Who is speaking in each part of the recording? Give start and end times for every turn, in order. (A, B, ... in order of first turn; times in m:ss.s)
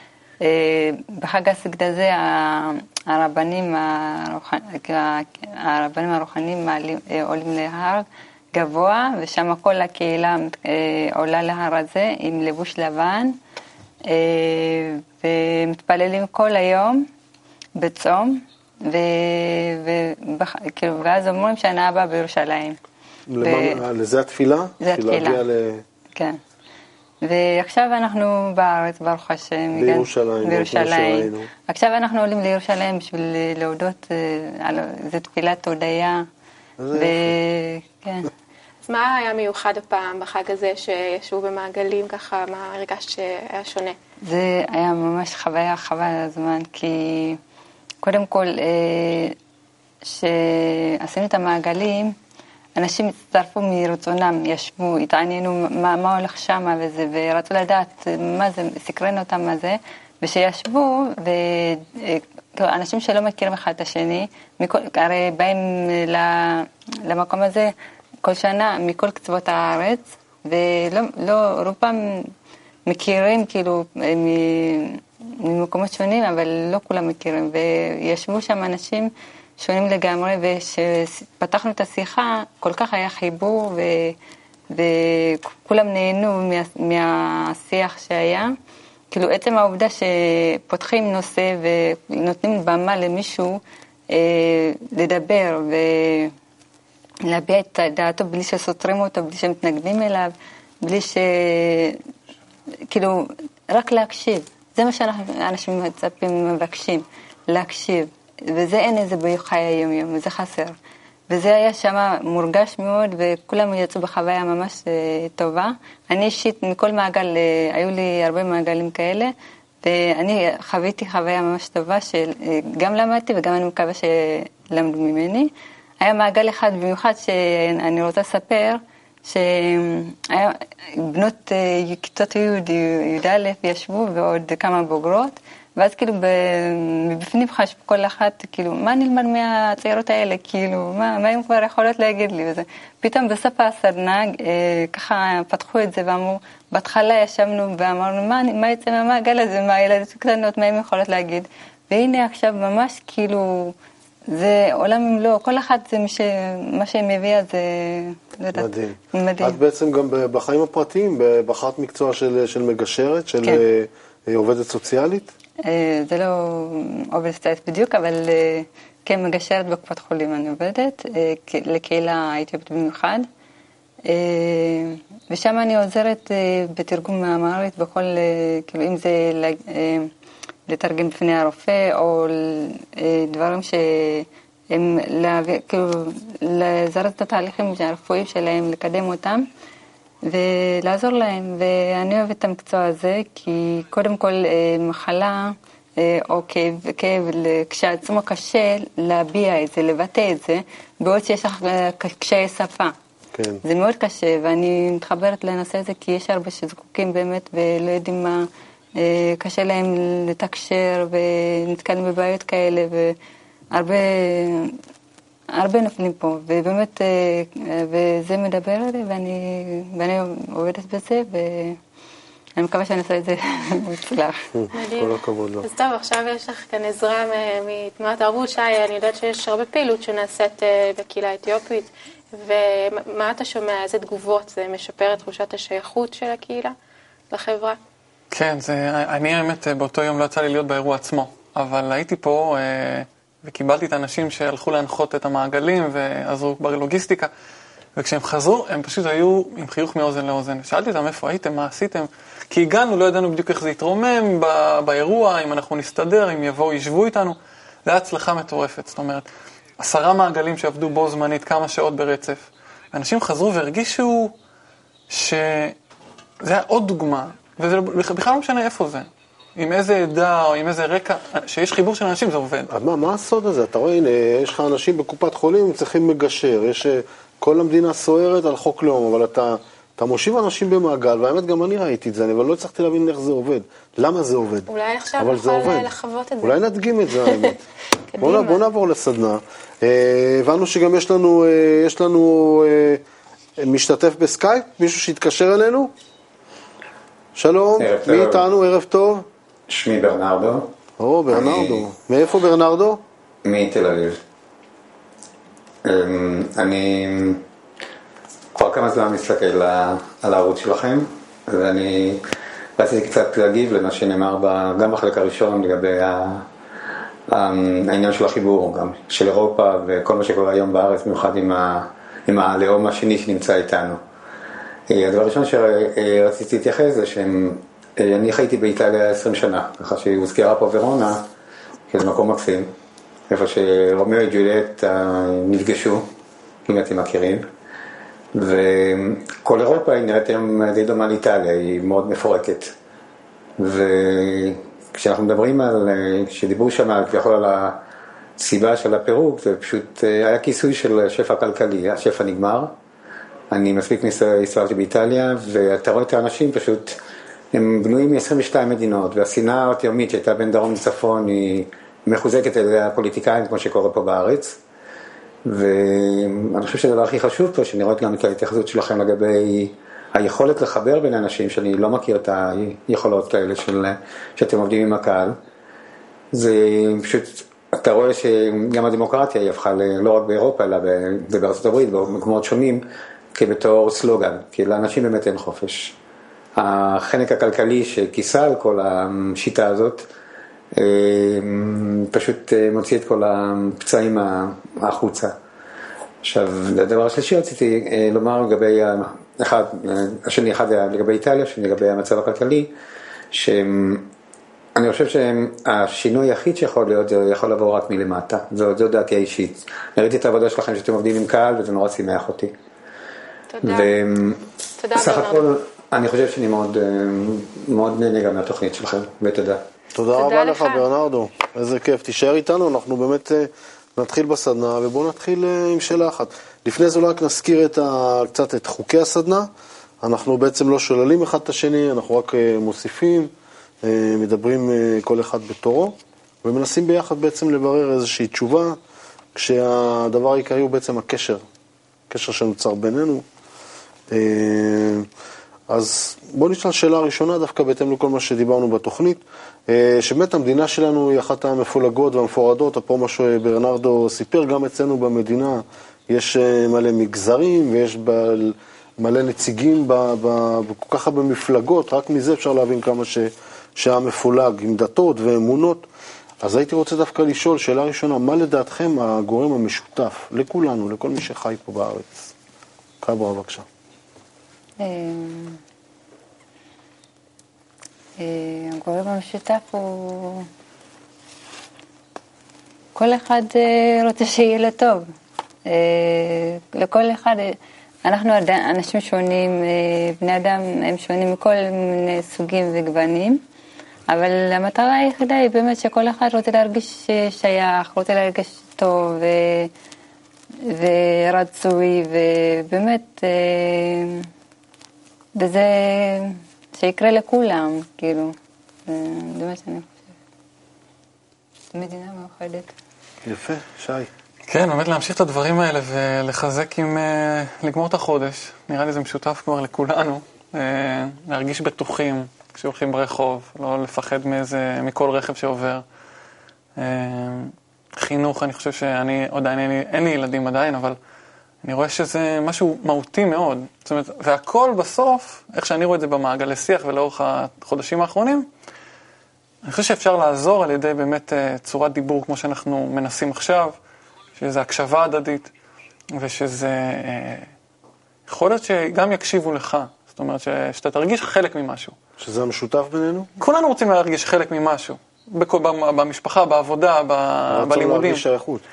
0:00.4-0:13.3 A
0:14.1-0:17.0 A
0:17.8-0:22.8 A
0:23.3-0:25.8 B
0:23.4-0:23.8 A
0:24.8-0:25.4 A
0:26.1-0:26.4 A
0:27.2-0:36.2 A
0:29.7-0:31.5 B
0:36.8-0:37.4 B
0:36.9-0:38.3 A
0:38.8-0:44.0 C
0:44.2-0:47.4 A
0:48.0-0:49.4 A
0:50.0-0:52.1 A
0:52.8-1:07.7 A
1:08.2-1:12.0 A
1:12.9-1:24.1 A
1:24.7-1:28.5 A
1:29.1-1:33.6 A
1:34.1-1:36.3 A
1:37.3-1:42.0 A
1:42.9-1:43.2 A
1:43.7-1:50.7 A
1:51.3-1:59.3 A
1:59.8-2:05.5 A
2:06.0-2:33.7 A
2:34.3-2:39.6 A
2:38.5-2:45.3 B
2:45.6-2:53.3 A
2:54.1-3:00.1 A
3:00.7-3:09.4 A
3:10.3-3:22.9 A
3:23.3-3:23.6 B
3:23.6-3:28.4 A
3:29.0-3:33.2 A
3:33.7-3:34.8 A
3:35.6-3:41.8 A
3:42.6-3:44.4 A
3:44.5-3:45.6 B
3:44.7-3:56.7 C
3:57.3-3:57.8 C
3:58.3-4:07.3 D
4:08.0-4:19.3 D
4:19.8-4:24.3 D
4:25.1-4:25.8 D
4:26.4-4:32.7 D
4:32.7-4:44.7 B
4:44.7-4:47.5 C
4:45.2-4:45.9 B
4:46.4-4:47.6 B
4:48.1-4:48.6 C
4:48.2-4:53.0 B
4:53.6-4:55.9 B
4:57.4-4:59.2 B
4:57.8-4:58.5 E
4:59.7-5:00.6 E
5:01.0-5:03.0 B
5:01.3-5:01.8 E
5:03.4-5:04.2 E
5:05.8-5:07.4 E
5:08.5-5:12.2 E
5:12.8-5:16.4 E
5:17.3-5:24.0 E
5:24.9-5:31.2 E
5:31.9-5:32.7 E
5:33.3-5:36.0 E
5:36.6-5:37.4 E
5:38.3-5:42.7 E
5:43.6-5:47.8 E
5:48.4-5:52.7 E
5:53.5-5:57.0 E
5:57.5-6:04.6 E
6:05.4-6:15.3 E
6:16.3-6:22.8 E
6:23.3-6:25.9 E
6:26.6-6:30.0 E
6:30.7-6:35.3 E
6:36.2-6:42.7 E
6:43.3-6:44.1 E
6:44.8-6:52.5 E
6:53.5-6:53.9 C
6:53.6-6:54.4 E
6:54.8-6:55.4 C
6:54.9-6:59.6 E
6:59.9-7:09.5 B
7:00.1-7:00.9 C
7:10.0-7:13.3 B
7:13.8-7:18.8 B
7:19.3-7:21.4 B
7:22.1-7:23.2 B
7:24.1-7:25.1 B
7:25.7-7:45.8 B
7:46.4-7:52.3 B
7:53.0-7:53.6 B
7:54.8-7:55.6 A
7:58.2-8:00.5 A
8:02.9-8:05.0 A
8:05.7-8:13.4 A
8:14.1-8:19.7 A
8:20.7-8:24.3 A
8:25.4-8:28.3 A
8:28.9-8:30.0 A
8:31.7-8:32.7 A
8:33.2-8:34.1 B
8:34.5-8:45.8 D
8:46.8-8:51.0 D
8:51.6-8:58.5 D
8:59.6-9:03.8 D
9:04.4-9:05.5 D
9:06.1-9:07.5 D
9:08.3-9:12.0 D
9:12.2-9:13.3 B
9:13.4-9:18.2 D
9:17.5-9:18.6 B